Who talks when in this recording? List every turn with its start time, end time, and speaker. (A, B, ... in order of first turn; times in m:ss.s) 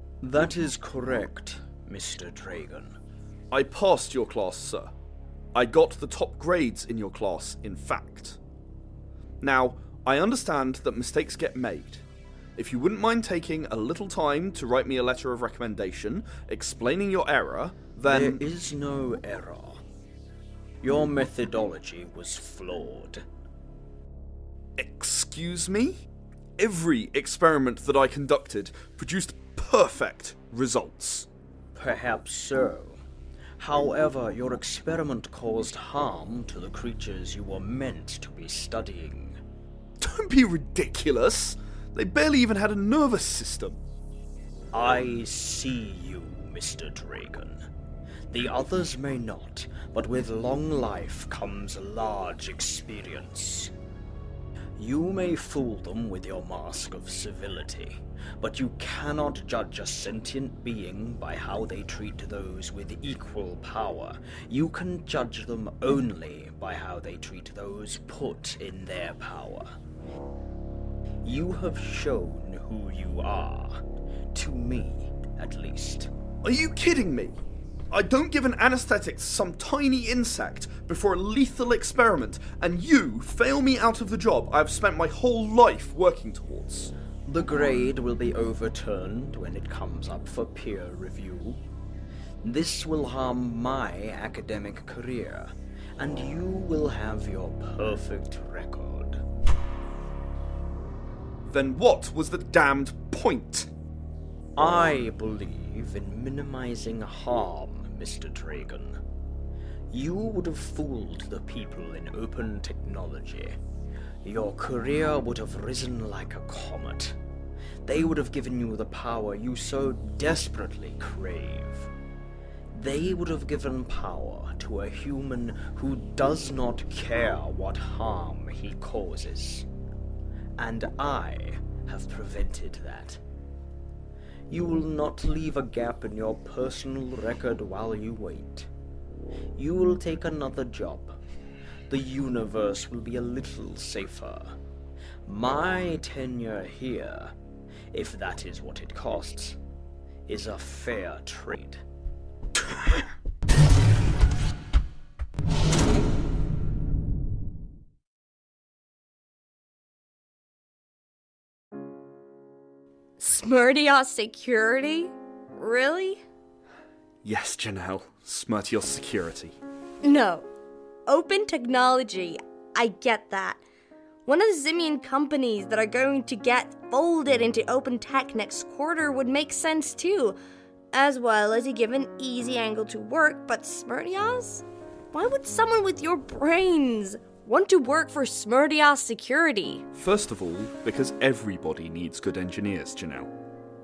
0:00.2-0:03.0 A
0:03.5-0:04.9 B
0:05.5-0:08.4 B
0:09.4-0:12.0 B
0:12.6-0:18.4 B
0:18.0-0:19.8 A
0:20.8-0:23.2 A
0:24.8-0:26.0 B
0:26.6-0:31.3 B
0:31.7-0:33.0 A
0:33.6-0:39.4 A
0:40.0-0:43.8 B
0:44.7-0:47.6 A
0:48.3-0:53.7 A
0:54.8-1:09.7 A
1:11.2-1:16.1 A
1:16.4-1:17.4 B
1:17.9-1:26.9 B
1:27.2-1:31.6 A
1:32.4-1:39.2 A
1:41.4-1:43.7 B
1:44.6-1:49.0 A
1:49.9-1:53.6 A
1:54.2-1:57.2 A
1:57.8-2:01.9 A
2:02.7-2:09.7 A
2:10.6-2:13.2 A
2:14.5-2:18.7 A
2:19.6-2:21.2 A
2:21.9-2:24.6 A
2:25.2-2:27.3 A
2:27.9-2:29.6 A
2:30.3-2:31.8 A
2:43.2-2:46.2 C
2:47.2-2:49.6 B
2:50.0-2:50.5 C
2:51.1-2:53.6 C
2:54.2-3:00.4 C
3:00.9-3:09.8 C
3:09.9-3:13.3 B